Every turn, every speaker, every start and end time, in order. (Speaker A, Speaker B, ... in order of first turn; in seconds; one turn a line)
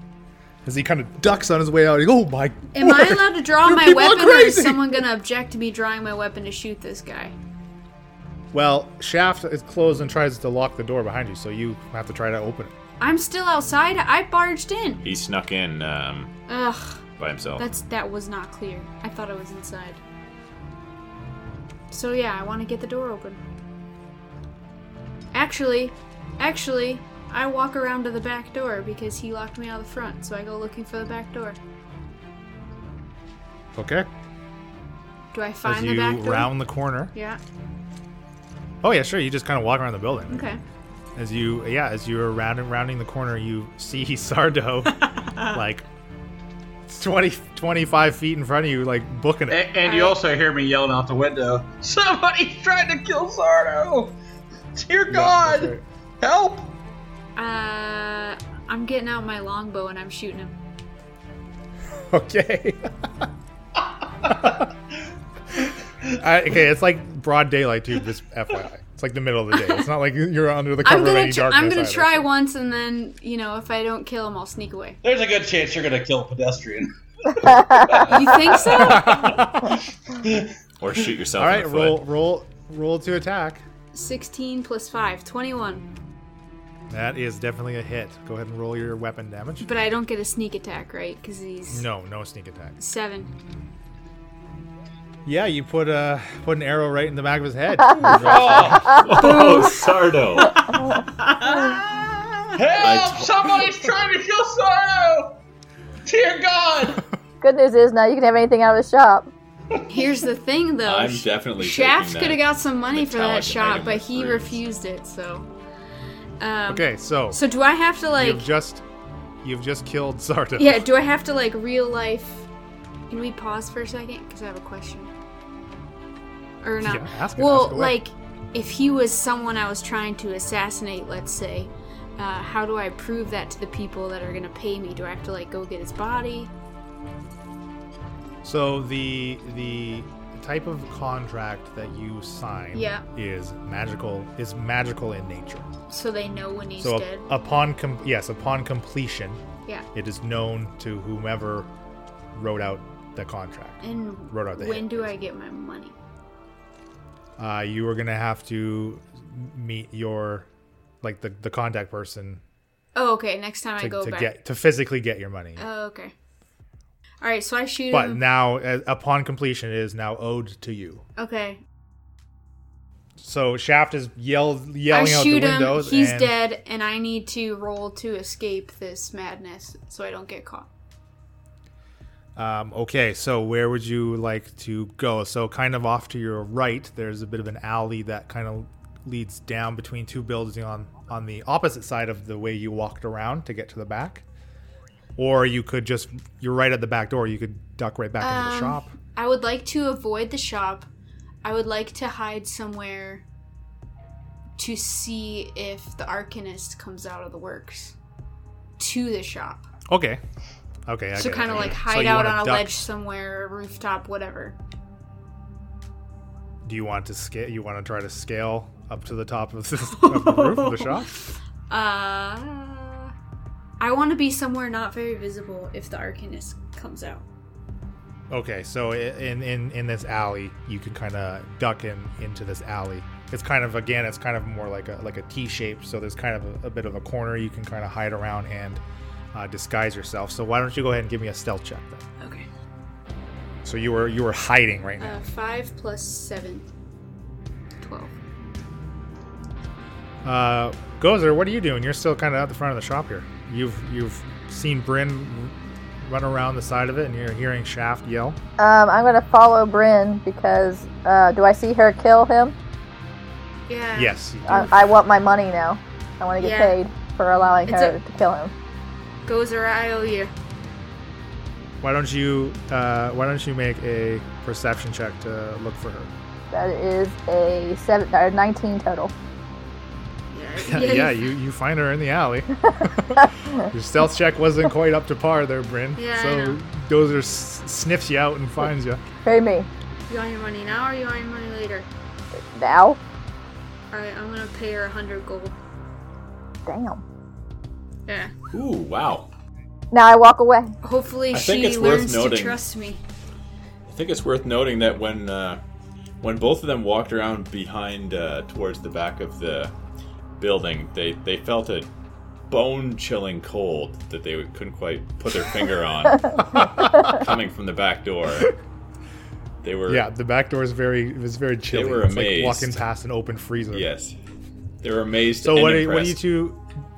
Speaker A: 0.6-5.0
Speaker B: 2.7-7.3
Speaker A: 8.5-12.7
Speaker B: 13.0-15.1
Speaker C: 15.0-16.3
Speaker B: 16.5-17.0
Speaker C: 17.2-17.6
Speaker B: 17.6-20.0
Speaker B: 21.9-23.4
Speaker B: 25.3-31.6
Speaker A: 33.7-34.1
Speaker B: 35.3-37.4
Speaker A: 35.6-37.1
Speaker A: 38.8-40.4
Speaker B: 40.3-40.6
Speaker A: 41.1-45.8
Speaker B: 45.0-45.6
Speaker A: 46.9-49.6
Speaker D: 49.5-54.1
Speaker B: 49.8-50.1
Speaker D: 54.7-56.7
Speaker A: 55.1-55.8
Speaker B: 57.4-60.5
Speaker A: 62.0-63.0
Speaker A: 66.2-72.2
Speaker B: 70.8-75.0
Speaker D: 75.0-80.5
Speaker B: 78.0-79.4
Speaker A: 78.8-79.7
Speaker C: 80.8-82.0
Speaker A: 81.4-83.6
Speaker B: 83.9-85.8
Speaker A: 86.9-89.7
Speaker B: 89.6-91.9
Speaker A: 91.7-92.8
Speaker B: 92.8-93.3
Speaker A: 95.2-98.7
Speaker E: 97.9-98.2
Speaker D: 98.0-99.1
Speaker C: 98.5-101.0
Speaker B: 98.9-100.7
Speaker B: 101.2-102.1
Speaker D: 102.5-105.4
Speaker C: 102.8-103.7
Speaker D: 106.0-107.0
Speaker E: 107.4-109.3
Speaker D: 109.8-110.1
Speaker B: 109.9-115.5
Speaker C: 110.8-114.6
Speaker B: 116.4-118.5
Speaker A: 116.7-117.4
Speaker A: 118.2-118.8
Speaker A: 119.4-120.8
Speaker B: 120.5-122.5
Speaker B: 123.1-125.1
Speaker B: 126.6-136.5
Speaker A: 126.8-128.0
Speaker A: 138.4-145.7
Speaker B: 142.7-143.1
Speaker B: 145.9-147.2
Speaker A: 146.8-151.7
Speaker A: 152.3-155.1
Speaker B: 153.8-155.9
Speaker A: 157.4-160.5
Speaker A: 161.0-162.4
Speaker B: 162.9-164.3
Speaker A: 163.8-165.6
Speaker B: 165.6-166.1
Speaker B: 167.2-168.2
Speaker A: 167.9-171.0
Speaker B: 171.2-171.6
Speaker A: 173.2-176.3
Speaker B: 174.9-180.7
Speaker A: 182.3-194.2
Speaker A: 195.2-198.9
Speaker B: 198.2-200.9
Speaker B: 201.4-203.2
Speaker B: 204.6-207.9
Speaker B: 208.8-209.7
Speaker A: 209.9-210.2
Speaker A: 210.9-212.7
Speaker B: 211.1-214.6
Speaker A: 216.6-221.1
Speaker B: 219.9-223.1
Speaker B: 223.8-227.2
Speaker A: 228.3-238.8
Speaker A: 239.3-242.0
Speaker B: 242.2-242.5
Speaker A: 243.6-245.2
Speaker B: 245.0-246.7
Speaker B: 247.8-248.1
Speaker A: 250.2-258.4
Speaker E: 258.6-262.5
Speaker B: 263.7-264.7
Speaker A: 263.9-264.7
Speaker E: 264.5-268.5
Speaker B: 266.4-266.8
Speaker B: 267.6-267.9
Speaker B: 269.2-270.3
Speaker A: 271.8-276.1
Speaker E: 276.5-279.1
Speaker B: 280.3-281.3
Speaker A: 280.6-289.0
Speaker E: 283.1-283.5
Speaker B: 285.9-286.6
Speaker E: 289.2-289.7
Speaker B: 290.1-291.9
Speaker E: 292.5-293.0
Speaker B: 293.9-295.6
Speaker E: 296.6-297.0
Speaker B: 298.1-298.3
Speaker C: 298.5-299.3
Speaker E: 299.9-300.7
Speaker B: 300.8-303.0
Speaker C: 301.3-302.6
Speaker C: 303.9-305.6
Speaker C: 306.2-309.7
Speaker C: 310.4-311.9
Speaker C: 312.5-318.5
Speaker A: 316.5-317.2
Speaker C: 319.6-320.1
Speaker A: 319.9-323.9
Speaker C: 321.7-322.8
Speaker C: 323.7-324.1
Speaker C: 324.8-326.2
Speaker A: 325.4-326.6